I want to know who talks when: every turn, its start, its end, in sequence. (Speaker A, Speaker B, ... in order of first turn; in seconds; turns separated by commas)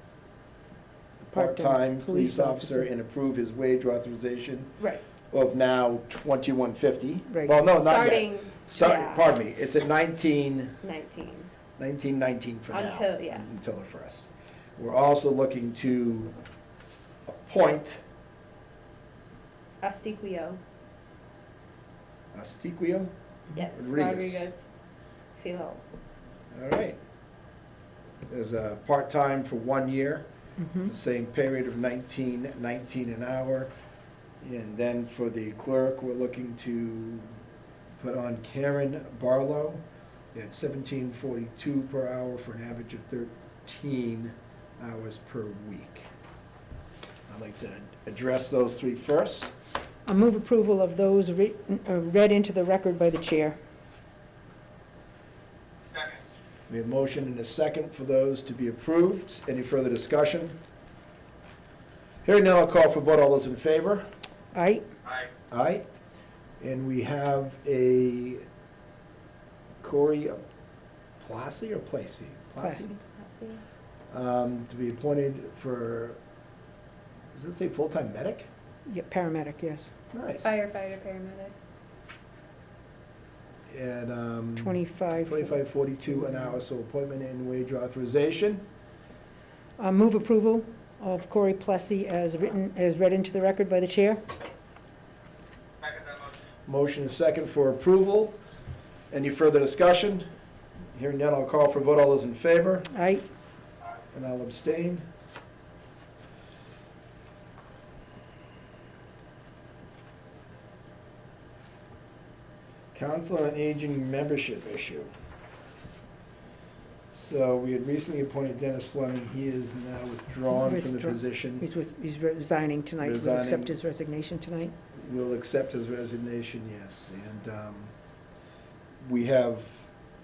Speaker A: 1.2-4.7, Speaker B: 1.3-2.9, Speaker A: 5.3-10.7, Speaker B: 7.3-7.6, Speaker C: 7.8-9.3, Speaker C: 10.8-11.5, Speaker A: 11.8-16.3, Speaker C: 12.7-13.4, Speaker A: 17.3-18.0, Speaker C: 19.8-20.6, Speaker A: 22.3-23.1, Speaker C: 23.5-24.7, Speaker A: 23.7-24.5, Speaker C: 25.4-25.8, Speaker A: 26.5-27.0, Speaker A: 28.3-30.2, Speaker B: 30.6-30.9, Speaker A: 30.8-33.7, Speaker A: 34.4-37.3, Speaker A: 38.0-39.8, Speaker A: 40.3-46.1, Speaker A: 47.3-49.5, Speaker B: 50.0-53.6, Speaker A: 56.7-60.6, Speaker A: 62.2-64.0, Speaker B: 64.5-64.8, Speaker A: 65.5-65.8, Speaker A: 66.6-68.4, Speaker A: 69.8-70.4, Speaker A: 71.2-73.0, Speaker B: 72.6-72.9, Speaker C: 73.0-73.6, Speaker A: 74.1-76.2, Speaker A: 77.3-78.5, Speaker B: 78.9-79.9, Speaker A: 80.1-80.6, Speaker C: 80.4-81.5, Speaker A: 83.7-88.6, Speaker B: 84.5-86.6, Speaker B: 89.8-94.2, Speaker A: 96.7-98.4, Speaker A: 99.1-100.2, Speaker A: 100.9-102.9, Speaker B: 102.9-103.2, Speaker A: 104.1-105.0, Speaker A: 112.9-115.1, Speaker A: 117.1-121.7, Speaker B: 120.5-124.7, Speaker A: 123.0-123.8, Speaker A: 124.9-127.9, Speaker A: 129.0-129.8